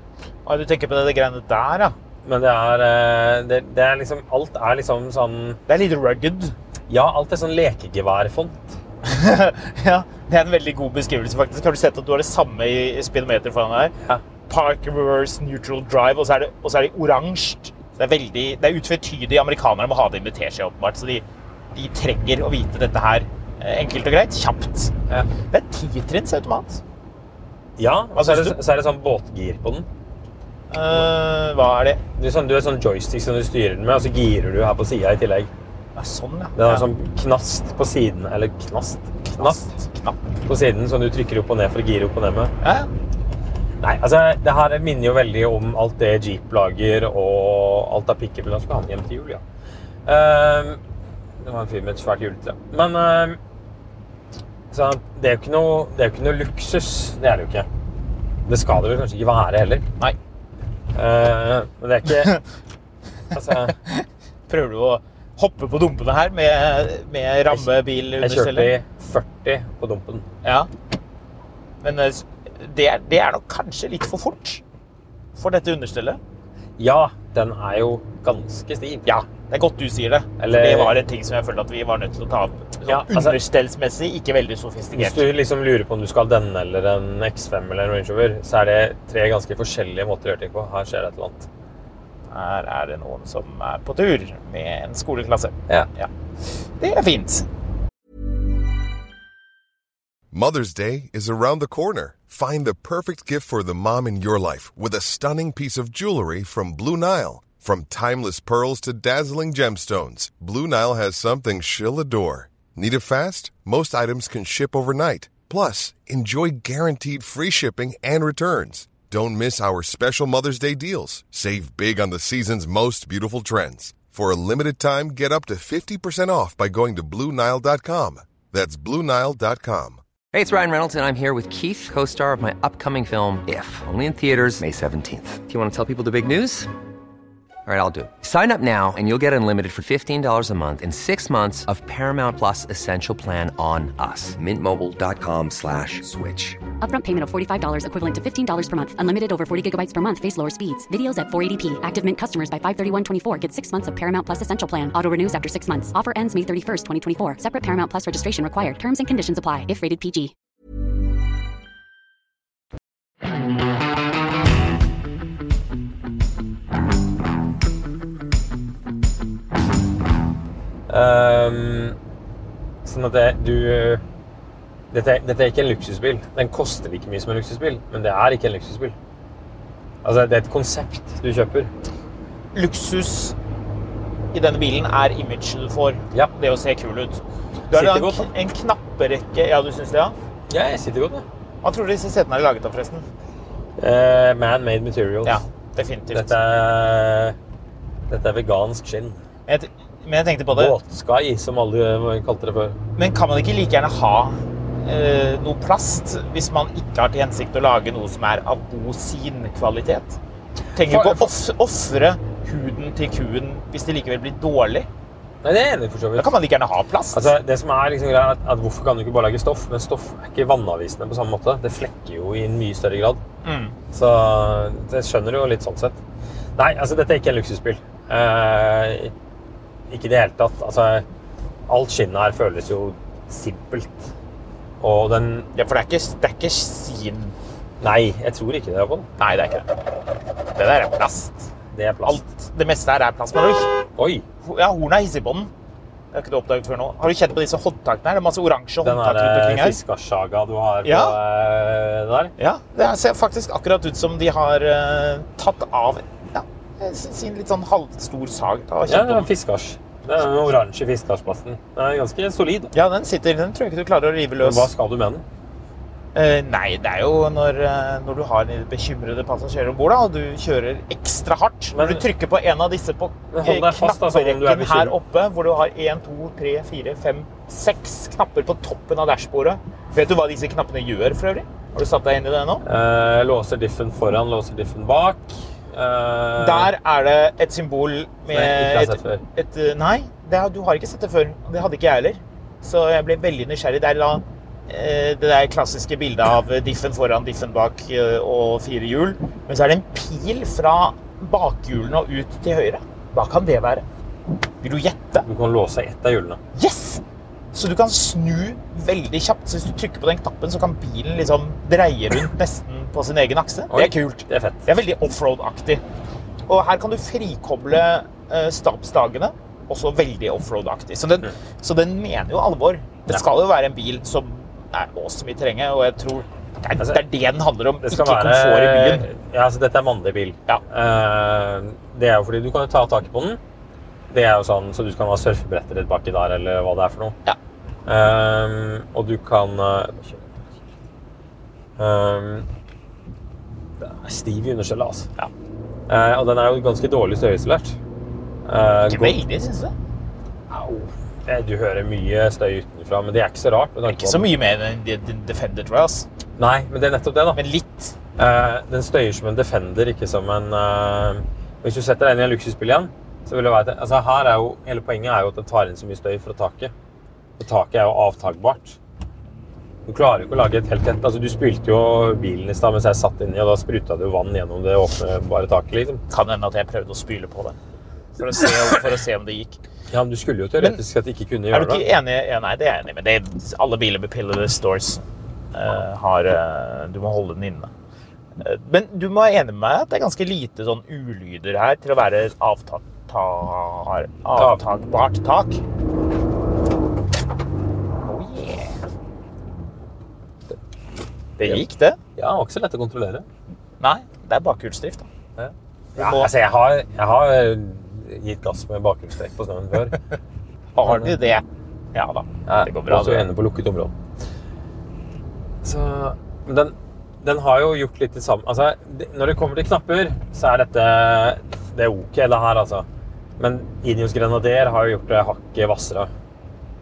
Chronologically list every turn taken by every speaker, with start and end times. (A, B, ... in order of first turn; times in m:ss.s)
0:00.4-0:01.9 A
0:02.2-0:05.6 B
0:05.7-0:06.5 A
0:06.9-0:08.8 B
0:09.0-0:13.9 A
0:14.5-0:21.2 A
0:21.7-0:24.9 A
0:25.5-0:26.8 A
0:27.8-0:29.9 B
0:28.2-0:28.6 A
0:30.7-0:32.0 A
0:32.2-0:35.5 B
0:36.0-0:36.9 A
0:36.6-0:39.6 B
0:39.2-0:40.2 A
0:40.4-0:42.5 B
0:42.6-0:42.9 A
0:43.8-0:49.4 B
0:50.0-0:50.8 B
0:51.4-0:53.4 B
0:54.7-0:57.7 B
0:58.4-0:59.9 B
1:00.9-1:02.4 B
1:03.3-1:03.8 B
1:03.8-1:08.7 A
1:08.2-1:10.3 B
1:11.8-1:14.6 A
1:15.4-1:16.2 A
1:16.8-1:19.2 B
1:19.1-1:25.2 A
1:20.4-1:21.0 B
1:22.9-1:23.4 B
1:24.9-1:31.5 B
1:32.3-1:36.1 A
1:36.8-1:37.5 A
1:40.3-2:10.0 C
2:10.3-2:16.7 D
2:17.6-2:26.6 D
2:26.8-2:40.3 E
2:50.9-2:52.0 B
2:52.8-2:54.0 B
2:54.9-2:58.9 B
3:00.0-3:01.7 B
3:02.5-3:03.4 A
3:04.3-3:10.2 A
3:07.7-3:08.3 B
3:10.5-3:11.2 B
3:11.6-3:13.0 A
3:13.8-3:15.4 B
3:15.2-3:16.3 A
3:16.1-3:17.4 B
3:18.1-3:19.2 B
3:19.5-3:20.8 A
3:20.5-3:22.8 B
3:23.0-3:30.2 A
3:30.7-3:34.9 A
3:30.8-3:31.3 B
3:35.4-3:36.3 B
3:36.2-3:37.3 A
3:37.1-3:43.2 B
3:43.4-3:43.7 A
3:43.9-3:46.0 B
3:46.6-3:49.1 B
3:49.9-3:51.0 B
3:51.7-3:54.1 B
3:54.8-3:55.5 B
3:55.5-3:57.3 A
3:57.8-3:59.1 B
3:59.2-3:59.7 A
4:00.6-4:01.5 A
4:01.7-4:02.2 B
4:02.0-4:03.7 A
4:04.0-4:04.2 B
4:04.4-4:05.5 A
4:06.1-4:09.8 A
4:08.8-4:12.3 B
4:10.8-4:11.2 A
4:12.4-4:19.3 A
4:18.8-4:22.7 B
4:22.7-4:24.7 A
4:24.4-4:25.2 B
4:26.1-4:42.6 A
4:31.7-4:32.0 B
4:33.3-4:35.0 B
4:42.6-4:46.7 B
4:46.4-5:03.8 A
4:48.3-4:49.2 B
5:04.6-5:05.3 A
5:05.2-5:06.4 B
5:06.5-5:07.0 A
5:07.5-5:15.8 A
5:13.7-5:14.7 B
5:16.5-5:29.1 A
5:27.8-5:33.4 B
5:34.1-5:37.2 B
5:37.8-5:40.4 B
5:41.8-5:42.5 B
5:43.8-5:45.1 B
5:45.9-5:47.8 B
5:48.4-5:49.2 B
5:48.9-5:49.7 A
5:50.5-5:54.3 B
5:53.9-5:56.1 A
5:56.4-5:57.4 B
5:57.3-5:58.0 A
5:58.2-6:06.7 B
6:07.4-6:08.8 B
6:09.8-6:16.0 B
6:16.1-6:17.6 A
6:18.2-6:19.6 A
6:19.9-6:21.8 B
6:21.5-6:25.0 A
6:25.5-6:27.7 A
6:28.4-6:35.6 A
6:34.4-6:34.6 B
6:38.0-6:38.8 A
6:41.4-6:42.0 A
6:42.2-6:43.2 B
6:43.8-6:45.1 A
6:45.4-6:50.0 B
6:46.0-6:46.3 A
6:50.8-6:53.3 A
6:50.8-6:51.2 B
6:52.5-6:53.9 B
6:55.6-7:02.8 B
7:03.4-7:06.1 B